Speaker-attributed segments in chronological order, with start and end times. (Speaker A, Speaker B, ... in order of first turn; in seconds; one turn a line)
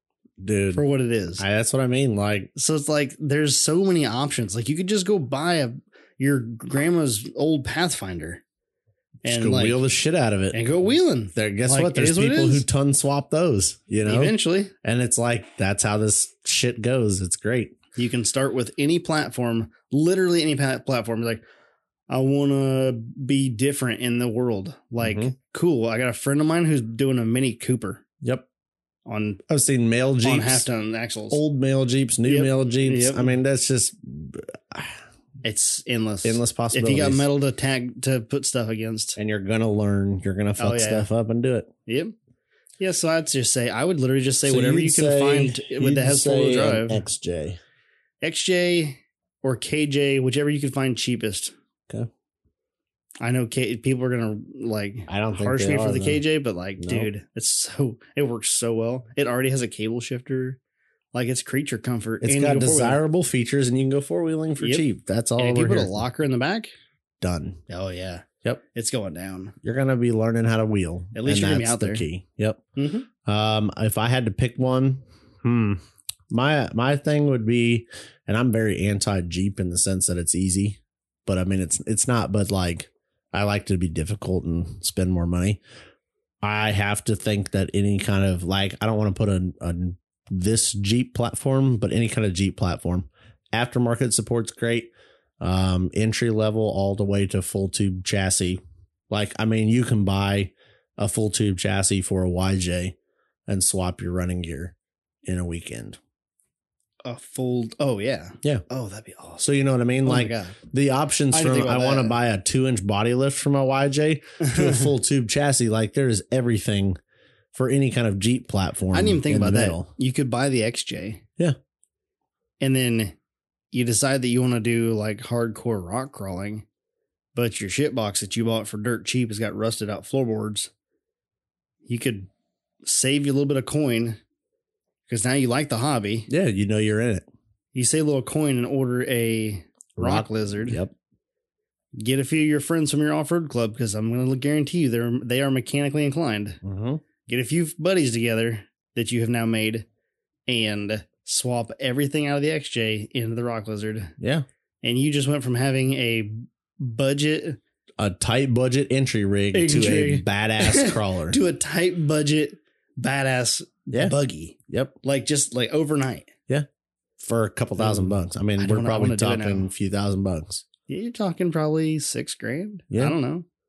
Speaker A: 0.4-0.8
Speaker B: 0.7-1.4
Speaker A: 1.4-2.5
Speaker B: 2.5-8.4
Speaker A: 9.2-10.6
Speaker B: 9.2-9.8
Speaker B: 10.5-12.7
Speaker A: 11.3-17.8
Speaker B: 14.0-14.7
Speaker B: 17.9-21.4
Speaker B: 22.1-28.0
Speaker A: 25.0-25.3
Speaker B: 29.1-29.4
Speaker A: 29.5-30.7
Speaker B: 30.2-31.4
Speaker A: 31.3-35.0
Speaker B: 32.3-33.3
Speaker B: 35.4-39.2
Speaker A: 36.2-37.2
Speaker A: 39.2-41.7
Speaker B: 40.6-41.1
Speaker B: 41.9-42.1
Speaker B: 42.8-47.0
Speaker A: 44.5-47.6
Speaker B: 48.2-51.5
Speaker B: 53.2-60.6
Speaker A: 55.1-56.2
Speaker A: 56.8-57.1
Speaker B: 61.1-63.0
Speaker A: 62.2-66.0
Speaker B: 65.4-66.7
Speaker A: 67.2-67.6
Speaker B: 67.7-69.5
Speaker A: 69.6-72.6
Speaker B: 71.1-72.0
Speaker B: 72.7-73.1
Speaker A: 73.2-75.8
Speaker A: 76.3-85.6
Speaker A: 86.4-102.9
Speaker A: 103.5-104.7
Speaker A: 105.2-106.0
Speaker B: 107.0-109.5
Speaker A: 109.4-117.0
Speaker B: 110.0-110.6
Speaker B: 111.3-112.2
Speaker B: 114.4-114.8
Speaker A: 117.5-119.9
Speaker B: 118.9-121.2
Speaker B: 122.6-123.1
Speaker B: 123.7-126.6
Speaker B: 127.3-130.7
Speaker B: 131.8-132.3
Speaker B: 132.8-134.2
Speaker B: 135.1-136.3
Speaker A: 136.3-137.3
Speaker B: 137.7-140.8
Speaker A: 140.0-140.9
Speaker B: 142.0-146.6
Speaker A: 146.6-147.0
Speaker B: 147.2-149.8
Speaker B: 150.5-154.1
Speaker A: 154.2-154.4
Speaker B: 154.8-157.6
Speaker A: 158.0-161.4
Speaker B: 159.5-166.3
Speaker A: 163.9-164.2
Speaker A: 164.7-164.9
Speaker A: 167.2-170.6
Speaker B: 167.8-169.7
Speaker B: 170.9-173.4